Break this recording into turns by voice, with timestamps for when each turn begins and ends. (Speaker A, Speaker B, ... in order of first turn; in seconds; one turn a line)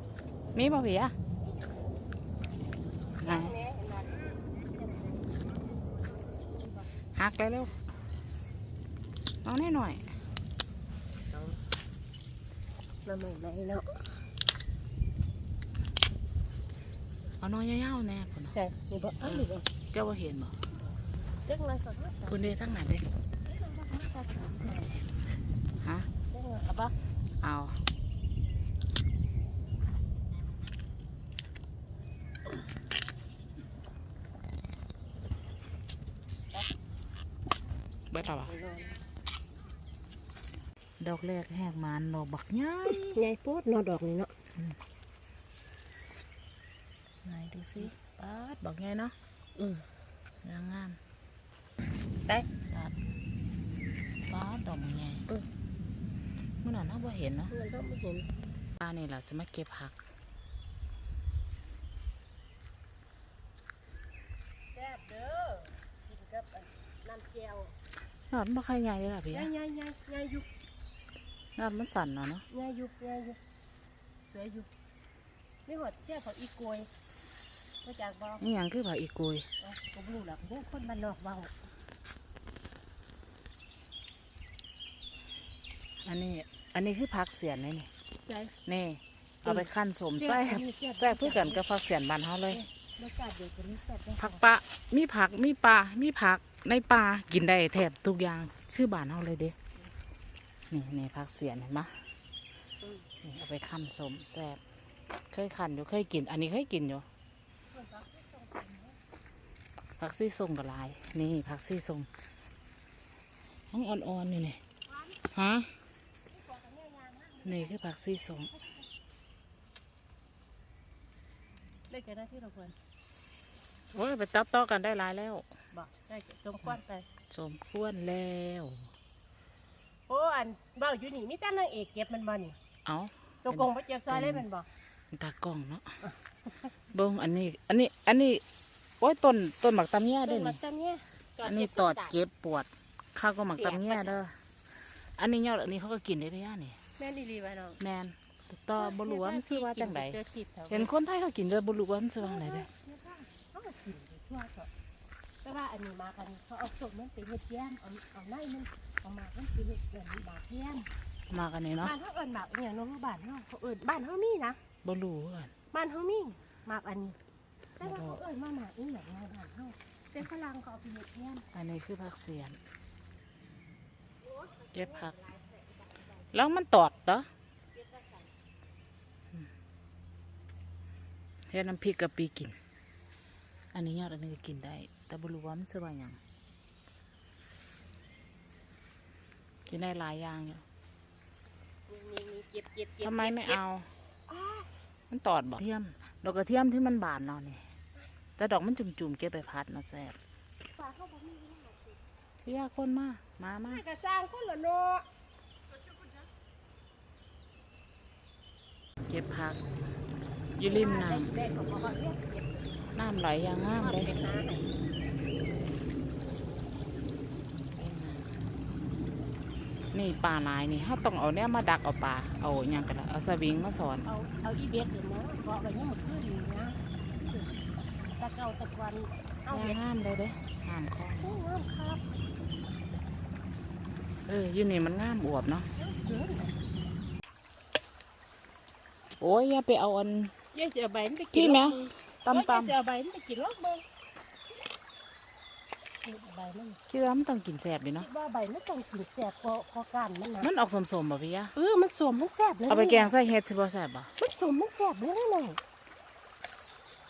Speaker A: 0.6-1.1
Speaker B: 3.2-6.9
Speaker A: 3.2-3.6
Speaker A: 7.2-7.7
Speaker A: 9.4-10.1
Speaker B: 13.0-14.1
Speaker A: 17.4-18.5
Speaker B: 18.5-19.7
Speaker A: 19.2-20.5
Speaker B: 21.5-22.6
Speaker A: 22.3-23.0
Speaker B: 23.5-25.0
Speaker A: 25.8-26.1
Speaker B: 26.3-26.9
Speaker A: 27.4-27.8
Speaker A: 38.1-38.5
Speaker B: 38.2-39.0
Speaker A: 41.0-43.2
Speaker B: 42.9-44.3
Speaker A: 47.2-49.1
Speaker B: 49.6-49.9
Speaker A: 50.4-51.0
Speaker A: 54.3-55.3
Speaker A: 56.6-57.5
Speaker B: 57.5-58.3
Speaker A: 58.8-60.0
Speaker B: 64.7-67.7
Speaker A: 68.3-69.5
Speaker B: 69.3-70.5
Speaker A: 71.6-72.5
Speaker B: 72.5-73.4
Speaker B: 74.3-74.7
Speaker B: 75.7-76.9
Speaker B: 77.8-78.5
Speaker A: 78.4-79.5
Speaker B: 79.6-81.5
Speaker A: 86.0-87.9
Speaker B: 88.2-88.5
Speaker A: 88.7-92.7
Speaker B: 90.2-91.6
Speaker B: 92.5-94.4
Speaker A: 94.2-99.6
Speaker A: 100.7-102.0
Speaker A: 103.2-104.6
Speaker A: 105.3-107.1
Speaker B: 107.7-109.0
Speaker A: 110.0-112.1
Speaker A: 113.7-114.6
Speaker B: 114.9-115.2
Speaker A: 115.3-115.7
Speaker B: 116.3-118.8
Speaker A: 117.5-118.5
Speaker B: 121.9-122.8
Speaker A: 123.9-125.5
Speaker B: 125.7-127.1
Speaker A: 127.3-128.9
Speaker B: 130.1-132.6
Speaker A: 132.8-134.4
Speaker B: 133.4-134.7
Speaker A: 135.1-135.9
Speaker A: 136.9-138.4
Speaker A: 139.0-140.6
Speaker B: 140.2-142.2
Speaker A: 141.4-144.4
Speaker B: 143.6-144.2
Speaker A: 145.2-146.8
Speaker B: 147.0-147.8
Speaker A: 147.8-150.2
Speaker B: 148.8-150.9
Speaker A: 150.7-152.7
Speaker B: 152.2-154.7
Speaker B: 155.4-160.9
Speaker A: 161.3-162.0
Speaker B: 161.8-164.6
Speaker A: 164.8-165.5
Speaker B: 165.7-167.2
Speaker B: 167.8-171.5
Speaker A: 167.8-168.2
Speaker A: 171.5-172.6
Speaker B: 174.2-176.3
Speaker A: 174.8-175.1
Speaker A: 176.3-177.3
Speaker B: 177.7-178.3
Speaker A: 181.5-182.6
Speaker A: 183.7-186.2
Speaker A: 189.7-190.6
Speaker B: 191.9-193.6
Speaker A: 193.0-193.9
Speaker B: 194.3-194.7
Speaker A: 195.1-197.6
Speaker A: 198.4-200.2
Speaker B: 200.8-202.0
Speaker A: 202.4-203.8
Speaker B: 203.6-205.1
Speaker B: 205.8-206.2
Speaker A: 209.1-209.6
Speaker A: 210.6-211.3
Speaker B: 210.7-212.6
Speaker A: 212.9-214.2
Speaker B: 213.8-214.8
Speaker A: 217.8-218.3
Speaker A: 219.9-224.1
Speaker B: 224.1-227.6
Speaker B: 228.2-229.8
Speaker A: 229.5-231.3
Speaker B: 231.2-232.0
Speaker A: 234.3-235.7
Speaker B: 235.8-236.6
Speaker A: 239.2-240.3
Speaker B: 240.5-243.8
Speaker A: 241.3-242.8
Speaker B: 246.0-246.8
Speaker A: 246.9-248.1
Speaker B: 248.0-250.5
Speaker A: 250.4-251.5
Speaker B: 251.6-253.2
Speaker A: 252.7-254.1
Speaker B: 254.2-255.6